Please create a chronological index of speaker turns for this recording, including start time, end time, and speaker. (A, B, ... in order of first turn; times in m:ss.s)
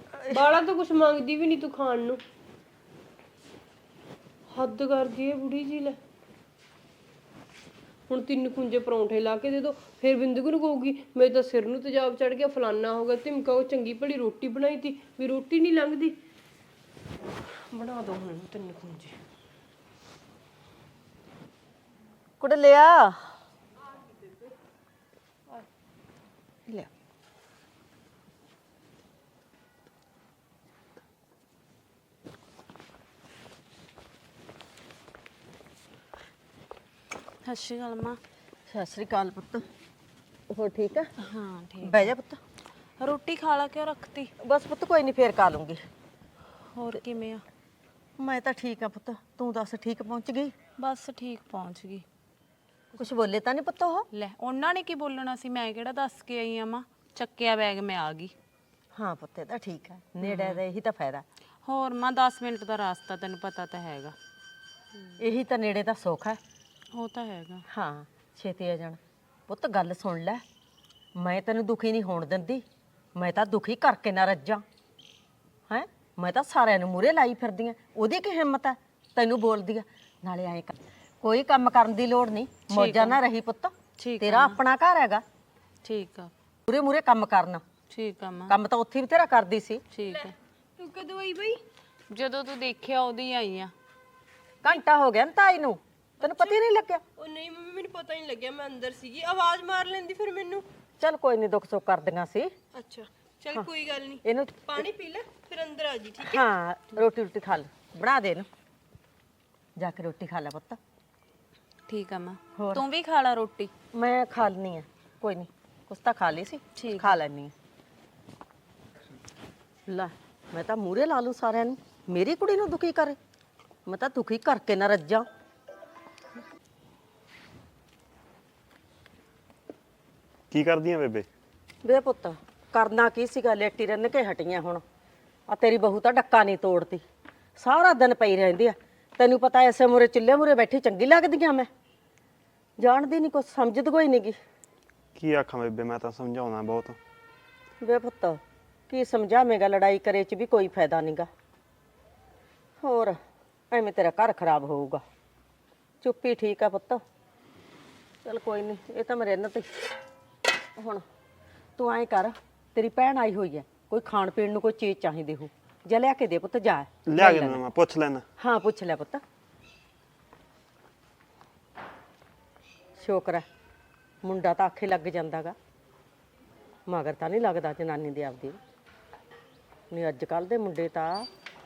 0:00.2-0:00.4 A
0:00.3-0:02.2 B
0:04.5-0:06.0 B
0:08.1-0:16.1 B
0:17.7-0:19.1 B
0:22.4-0:23.2 A
0:24.1-0:24.4 B
0:37.4-0:38.2 C
0:38.7-0:39.6 A
0:40.5-0:41.1 A
0:41.2-0:42.1 C
0:41.8-0:42.4 A
0:43.0-0:44.3 C
0:44.4-0:45.8 A
0:46.7-0:47.4 C
0:48.2-0:50.5 A
0:50.8-0:52.0 C
0:53.0-0:54.1 A
0:54.1-0:58.3 C
0:58.9-1:01.2 A
1:00.2-1:00.6 C
1:01.6-1:04.2 C
1:05.2-1:06.4 A
1:06.9-1:07.6 C
1:07.7-1:10.4 A
1:11.2-1:12.6 A
1:13.2-1:14.6 A
1:15.7-1:25.2 A
1:22.7-1:23.2 C
1:24.0-1:24.6 C
1:25.8-1:26.3 C
1:26.7-1:27.6 A
1:27.9-1:28.5 C
1:28.5-1:29.8 A
1:29.9-1:30.3 C
1:30.1-1:31.6 B
1:32.1-1:33.7 C
1:34.6-1:37.0 A
1:36.2-1:36.6 B
1:37.2-1:40.6 B
1:41.0-1:42.5 A
1:42.7-1:46.4 B
1:44.2-1:44.6 A
1:46.2-1:48.5 A
1:49.8-1:50.8 A
1:51.9-1:53.7 C
1:52.6-1:52.8 A
1:53.9-1:57.5 A
1:56.8-1:57.2 C
1:59.9-2:03.2 A
2:03.9-2:05.2 A
2:10.5-2:11.2 D
2:11.8-2:14.8 A
2:15.5-2:17.0 A
2:17.6-2:21.7 A
2:22.8-2:24.4 A
2:25.2-2:27.0 D
2:27.8-2:31.3 A
2:32.8-2:33.2 A
2:33.7-2:35.0 A
2:36.0-2:37.0 A
2:38.2-2:39.7 A
2:40.8-2:41.0 A
2:41.8-2:47.6 A
2:47.1-2:48.2 D
2:48.4-2:49.2 A
2:53.0-2:53.4 A
2:54.2-2:55.6 A
2:56.9-2:58.6 A
2:59.9-3:01.3 A